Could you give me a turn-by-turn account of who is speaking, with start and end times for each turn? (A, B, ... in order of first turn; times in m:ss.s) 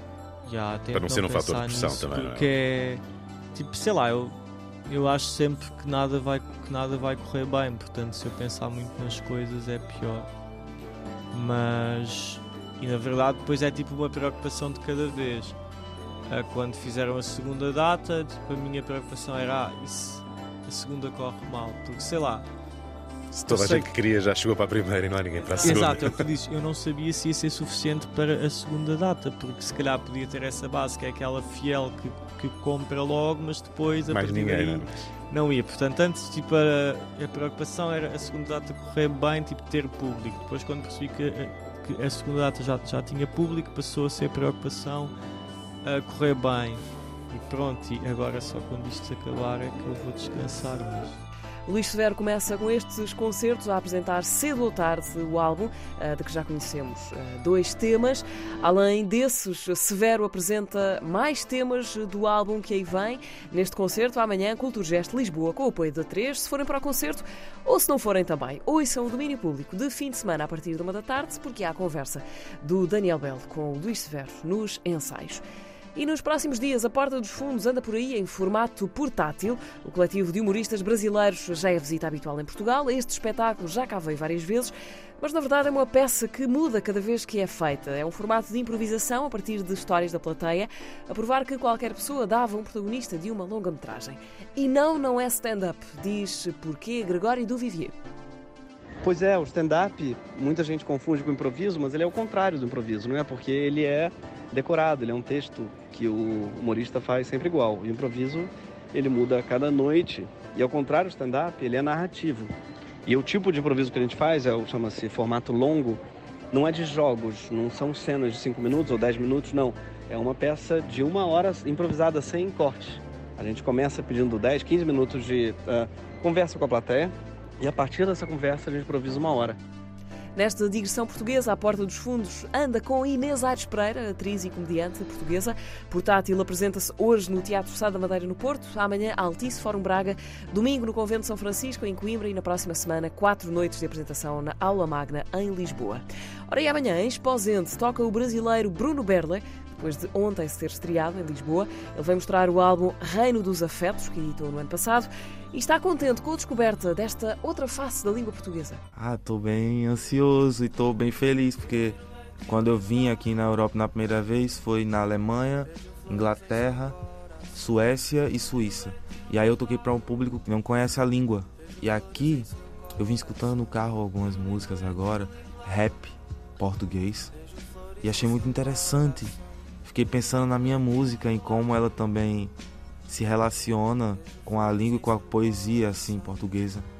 0:00.4-0:03.0 A
0:00.9-0:02.5 B
0:03.5-0:10.3 A
0:11.3-0:15.6 A
0:16.3-0:22.5 A
0:23.3-0:26.2 B
0:23.5-0:23.9 A
0:25.6-0:45.1 A
0:34.1-0:34.9 B
0:45.8-0:51.1 A
0:51.7-1:15.4 C
1:15.9-1:37.9 C
1:39.0-1:52.5 D
1:53.0-2:09.6 D
2:10.3-2:38.8 C
2:38.9-2:47.0 E
2:47.5-2:57.3 E
2:58.0-3:02.5 E
3:03.1-3:06.8 E